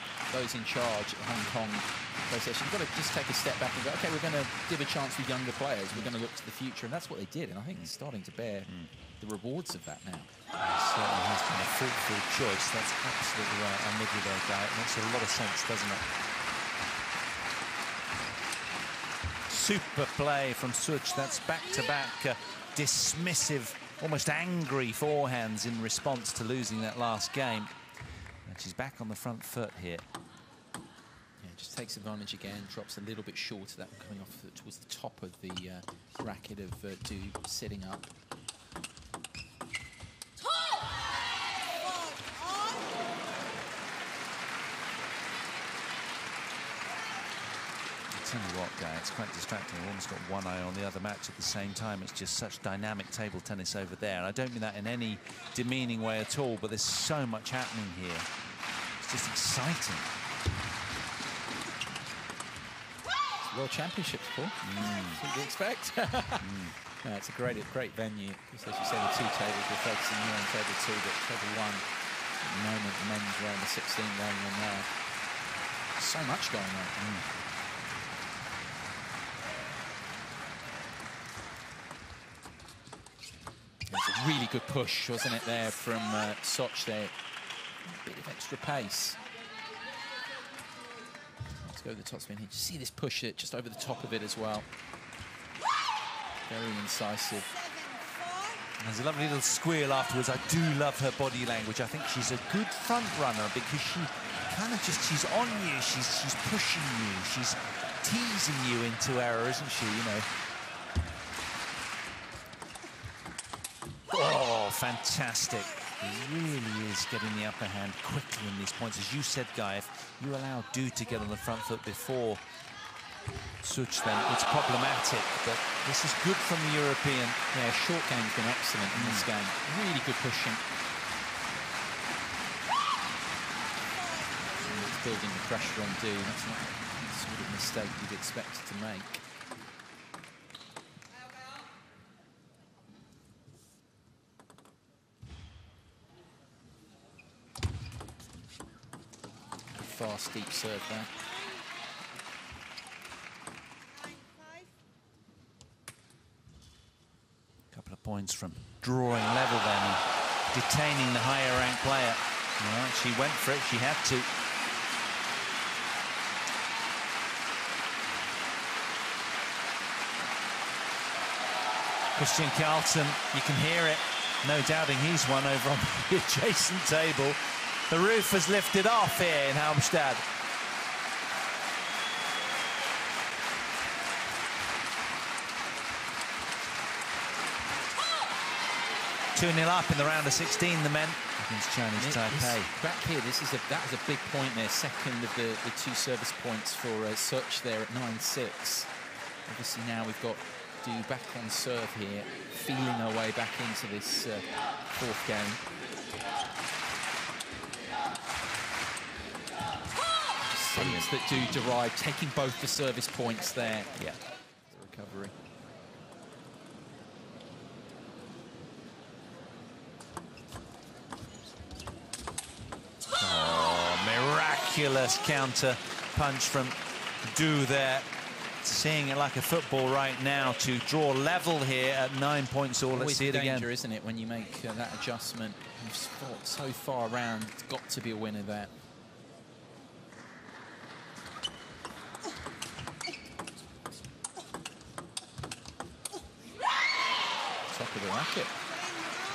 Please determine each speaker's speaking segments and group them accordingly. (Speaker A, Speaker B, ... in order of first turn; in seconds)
Speaker A: 0.3-10.3, 31.4-38.1, 63.4-71.8, 72.4-74.9, 76.0-77.1, 83.9-87.1, 87.8-89.2, 91.6-94.7, 96.5-97.5, 127.5-130.6, 134.6-139.2, 149.7-151.1, 191.9-198.9, 199.5-205.7, 210.4-213.9, 214.7-215.3, 232.9-238.7, 247.7-248.5
Speaker B: 10.6-16.1, 19.5-27.8, 28.4-30.0, 48.1-58.3, 59.0-60.1, 64.6-65.2, 66.4-66.7, 98.8-110.3, 114.1-122.4, 123.6-127.4, 128.9-129.3, 157.7-164.3, 172.1-180.2, 189.3-192.7, 210.8-211.1, 213.9-214.2, 223.2-228.1, 228.6-233.7